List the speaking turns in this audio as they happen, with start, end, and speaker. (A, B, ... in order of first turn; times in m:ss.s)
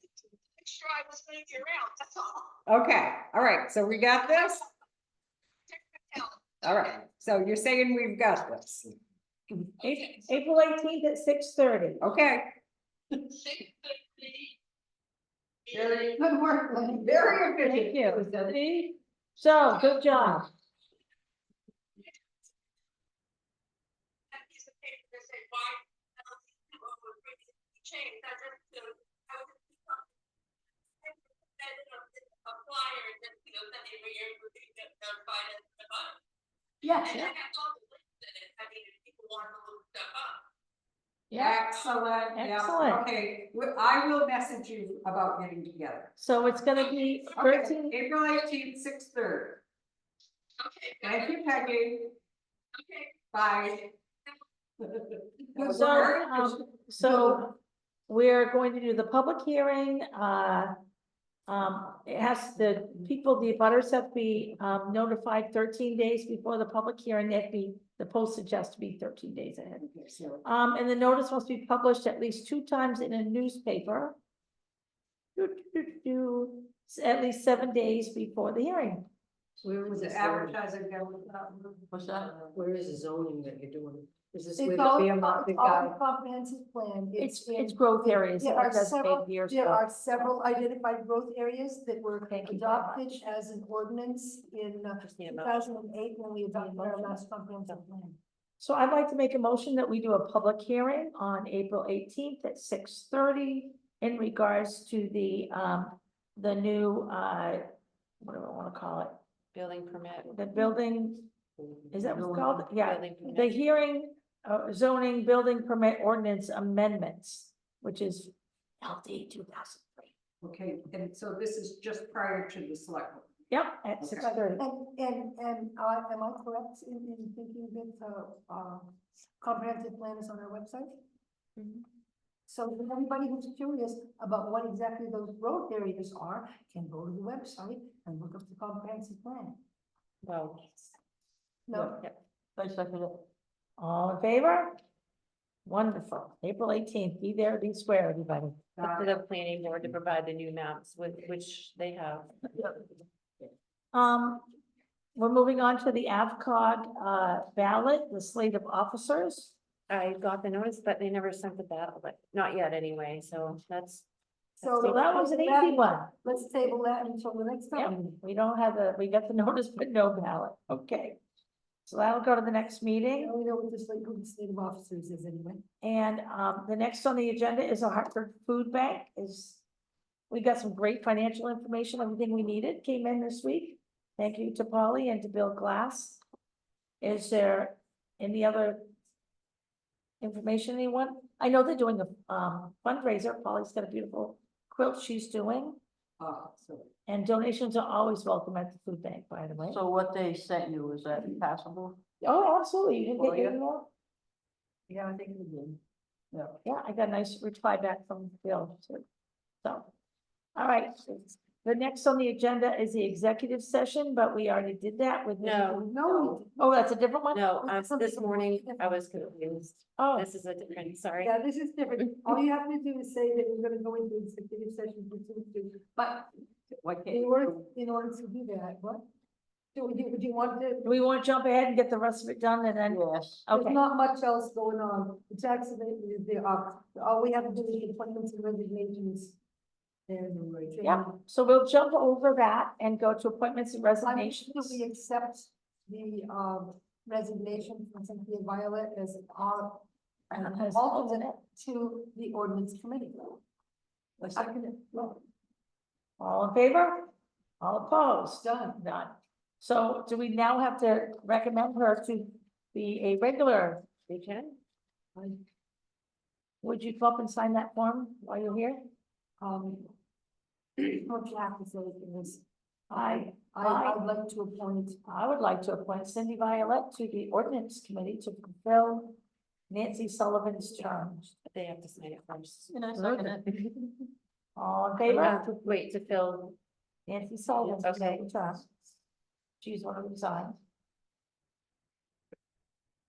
0:00.6-0:02.4 A
0:02.7-0:04.6 B
0:06.6-0:08.9 B
0:09.8-0:12.0 C
0:12.0-0:12.5 B
0:15.7-0:16.2 B
0:16.1-0:17.4 D
0:17.0-0:18.6 B
0:17.6-0:20.5 C
0:24.3-0:30.0 A
0:31.0-0:36.1 A
0:36.9-0:37.2 D
0:37.0-0:37.3 C
0:37.2-0:40.4 A
0:41.3-0:41.6 C
0:41.3-0:46.1 B
0:42.3-0:43.1 C
0:46.2-0:48.0 C
0:47.4-0:49.6 B
0:50.6-0:51.2 A
0:51.0-0:52.1 B
0:53.3-0:53.9 B
0:54.8-0:57.4 B
0:55.6-0:57.6 C
0:58.1-1:00.7 C
1:01.5-1:09.8 C
1:09.8-1:10.4 B
1:10.4-1:14.2 C
1:15.4-1:19.0 C
1:19.6-1:20.6 E
1:19.9-1:22.6 B
1:21.9-1:25.9 E
1:24.6-1:38.2 D
1:27.2-1:29.8 C
1:32.3-1:33.2 C
1:35.0-1:35.6 F
1:36.5-1:37.2 C
1:38.6-1:47.6 C
1:48.2-1:49.2 C
1:49.5-1:50.3 F
1:50.3-1:51.2 C
1:51.9-1:52.7 E
1:51.9-2:00.1 C
1:52.8-1:53.5 F
2:00.4-2:03.3 B
2:03.5-2:04.6 C
2:04.0-2:04.3 B
2:04.2-2:10.9 D
2:11.6-2:11.8 F
2:12.5-2:19.6 D
2:20.2-2:20.9 F
2:21.7-2:22.0 D
2:21.7-2:22.0 E
2:21.9-2:22.2 F
2:22.6-2:23.2 E
2:23.8-2:24.8 C
2:25.6-2:28.7 C
2:28.8-2:32.4 F
2:33.9-2:34.4 C
2:35.2-2:39.5 C
2:39.9-2:44.0 F
2:44.6-2:45.1 F
2:44.6-2:48.2 D
2:44.8-2:46.1 C
2:47.7-2:51.2 C
2:51.8-2:53.3 C
2:53.2-2:55.6 D
2:55.8-2:59.6 C
3:00.3-3:06.2 C
3:07.0-3:08.9 C
3:10.2-3:15.8 C
3:16.2-3:16.9 B
3:17.1-3:19.8 C
3:19.7-3:22.0 E
3:22.2-3:23.9 C
3:23.2-3:23.6 E
3:24.9-3:25.8 E
3:26.6-3:29.0 C
3:29.6-3:29.9 C
3:30.6-3:35.8 C
3:35.4-3:36.4 F
3:35.7-3:36.6 D
3:36.6-3:37.4 C
3:37.3-3:41.4 F
3:37.6-3:39.3 D
3:40.0-3:40.3 C
3:41.2-3:46.3 D
3:42.0-3:42.4 F
3:46.8-3:47.2 B
3:46.9-3:47.2 E
3:47.1-3:49.0 D
3:49.7-3:50.9 D
3:50.8-3:53.8 C
3:52.9-3:53.5 E
3:53.5-3:59.4 D
4:00.1-4:01.2 D
4:00.8-4:04.8 C
4:04.0-4:13.4 D
4:10.3-4:11.4 C
4:14.2-4:14.5 C
4:14.4-4:15.2 D
4:16.2-4:17.1 C
4:17.6-4:23.8 C
4:18.4-4:18.8 D
4:24.1-4:24.6 F
4:26.6-4:28.8 C
4:29.4-4:29.9 D
4:30.8-4:35.0 D
4:32.9-4:34.0 C
4:35.1-4:39.2 C
4:39.7-4:41.3 C
4:41.4-4:42.7 F
4:42.7-4:43.7 E
4:42.9-4:43.4 C
4:44.6-4:45.4 C
4:45.1-4:46.6 F
4:47.1-4:48.7 C
4:47.8-4:48.2 F
4:49.6-4:50.6 C